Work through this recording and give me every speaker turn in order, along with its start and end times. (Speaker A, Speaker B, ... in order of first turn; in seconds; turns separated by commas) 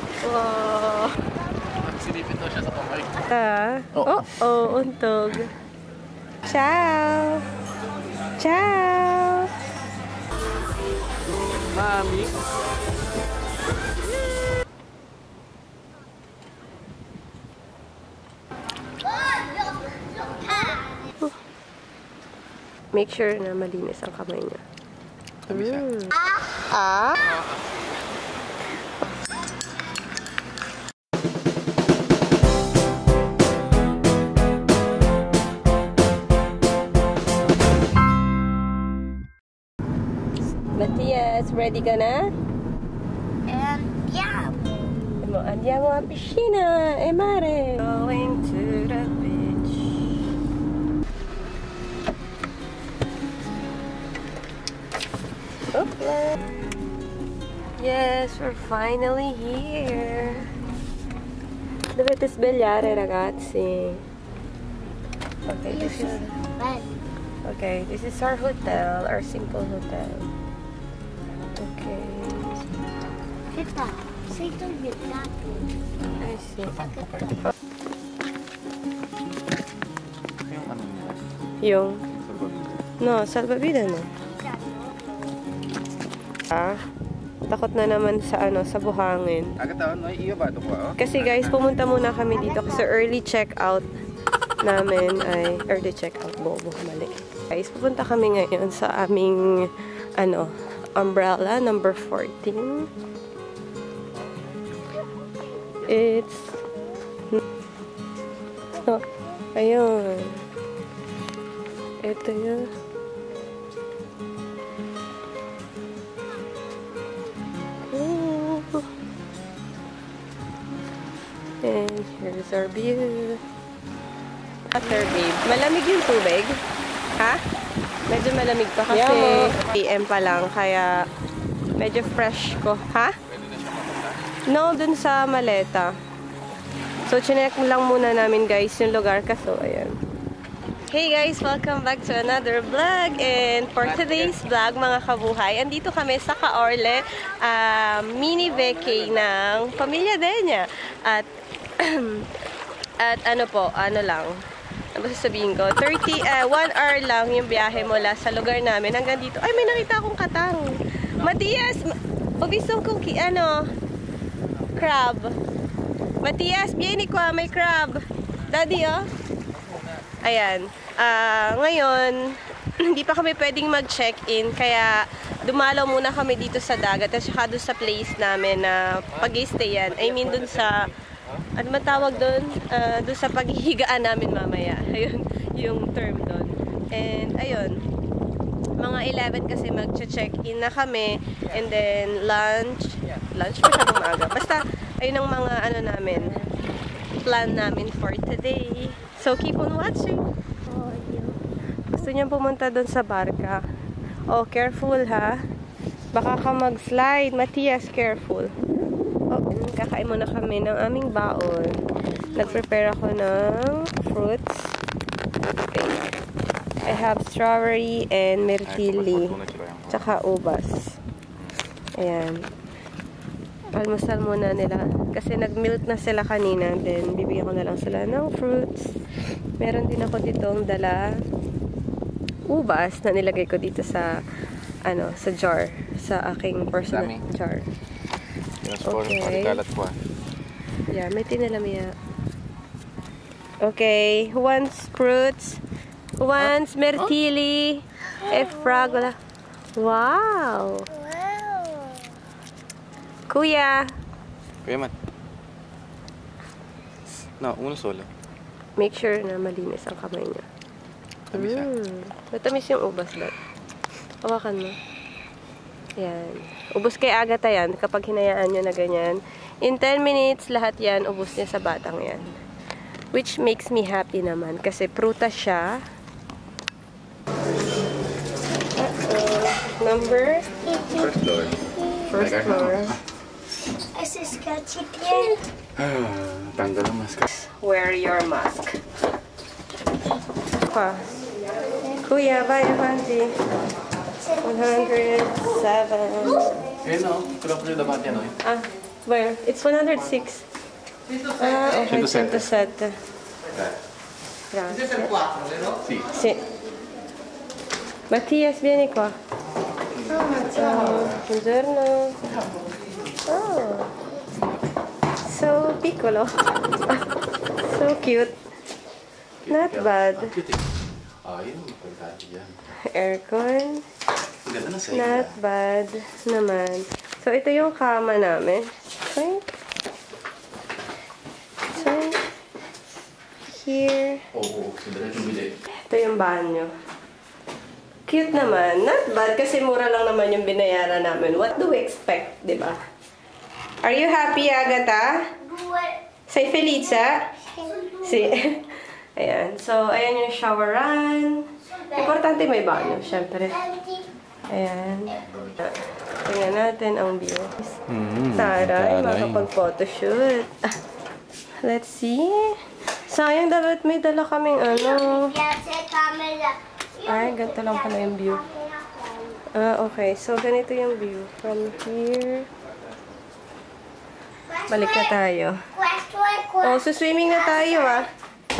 Speaker A: 0.2-1.2, Speaker B: 1.7-3.1, Speaker A: 3.2-5.5, Speaker B: 3.9-4.2, Speaker A: 6.5-7.4, Speaker A: 8.4-9.5, Speaker B: 11.7-12.3, Speaker C: 19.1-21.0, Speaker A: 22.9-24.6, Speaker B: 25.4-25.9, Speaker A: 25.5-27.2, Speaker A: 40.7-42.3, Speaker C: 43.5-45.1, Speaker A: 45.2-50.1, Speaker A: 55.7-56.4, Speaker A: 57.8-60.5, Speaker A: 61.9-64.0, Speaker A: 65.5-66.4, Speaker C: 65.7-66.9, Speaker A: 67.4-70.3, Speaker A: 71.5-72.6, Speaker C: 73.5-75.6, Speaker A: 76.1-76.9, Speaker C: 76.8-77.2, Speaker B: 76.8-77.5, Speaker B: 80.4-81.2, Speaker A: 81.6-82.0, Speaker B: 82.2-82.7, Speaker A: 83.0-84.1, Speaker C: 84.4-85.2, Speaker A: 86.5-86.8, Speaker A: 87.5-89.5, Speaker B: 89.6-91.6, Speaker A: 91.0-93.9, Speaker A: 94.6-102.9, Speaker A: 105.8-106.6, Speaker A: 108.8-110.4, Speaker A: 112.0-112.7, Speaker A: 117.9-118.8, Speaker A: 121.6-123.4, Speaker A: 124.7-126.6, Speaker A: 128.1-131.0, Speaker A: 131.8-133.2, Speaker B: 133.3-134.2, Speaker A: 134.5-135.9, Speaker A: 137.1-140.0, Speaker A: 140.9-152.3, Speaker B: 143.9-144.2, Speaker A: 153.0-154.4, Speaker A: 154.9-163.7, Speaker A: 164.7-165.4, Speaker A: 166.2-169.1, Speaker A: 170.2-180.9, Speaker A: 181.5-187.8, Speaker A: 188.8-196.4, Speaker A: 197.2-200.2, Speaker C: 200.7-201.4, Speaker A: 201.9-203.6, Speaker A: 204.3-205.4, Speaker A: 206.1-208.5, Speaker A: 209.3-214.7, Speaker A: 215.6-216.2, Speaker A: 216.8-219.4, Speaker B: 218.6-220.1, Speaker A: 219.9-221.0, Speaker A: 222.0-222.5, Speaker A: 223.7-229.0, Speaker A: 229.6-231.1, Speaker A: 232.5-234.1, Speaker A: 234.8-237.7, Speaker B: 236.9-237.2, Speaker B: 238.6-240.0, Speaker A: 238.8-239.6, Speaker A: 240.9-241.9, Speaker A: 243.6-245.6, Speaker A: 246.2-249.2, Speaker A: 249.8-250.9, Speaker C: 251.0-251.9, Speaker A: 253.3-253.9, Speaker B: 254.6-254.9, Speaker B: 257.4-258.1, Speaker A: 258.8-260.4, Speaker B: 261.3-261.7, Speaker A: 261.3-263.3, Speaker A: 264.2-264.8, Speaker A: 266.0-272.3, Speaker A: 273.1-275.8, Speaker A: 278.8-280.5, Speaker C: 280.7-282.1, Speaker B: 280.9-283.0, Speaker A: 282.1-283.0, Speaker C: 283.9-285.4, Speaker B: 285.8-287.2, Speaker A: 287.2-288.8, Speaker A: 290.6-291.2, Speaker A: 292.0-293.3, Speaker A: 294.4-296.5, Speaker B: 296.8-298.3, Speaker A: 298.4-300.4, Speaker A: 301.4-303.0, Speaker B: 301.8-302.5, Speaker A: 304.5-305.3, Speaker A: 306.0-306.4, Speaker A: 308.1-309.1, Speaker A: 310.1-312.2, Speaker A: 313.2-313.9, Speaker A: 315.2-317.0, Speaker A: 317.6-318.4, Speaker B: 319.4-320.6, Speaker A: 319.5-320.4, Speaker B: 321.2-322.6, Speaker A: 322.9-323.8, Speaker B: 324.4-325.4, Speaker A: 324.9-329.4, Speaker A: 331.7-332.2, Speaker A: 333.5-334.3, Speaker B: 334.3-335.5, Speaker A: 335.9-336.7, Speaker A: 338.1-342.8, Speaker A: 343.8-345.3, Speaker C: 345.4-346.0, Speaker A: 346.3-353.6, Speaker C: 347.4-348.2, Speaker C: 351.8-352.0, Speaker C: 353.5-354.0, Speaker A: 354.5-357.8, Speaker B: 357.9-359.5, Speaker A: 358.3-360.7, Speaker A: 361.6-365.4, Speaker C: 364.9-369.4, Speaker A: 367.1-368.4, Speaker A: 369.5-372.5, Speaker C: 374.5-375.1, Speaker A: 374.7-375.7, Speaker C: 375.7-376.8, Speaker A: 376.6-378.1, Speaker C: 377.5-378.0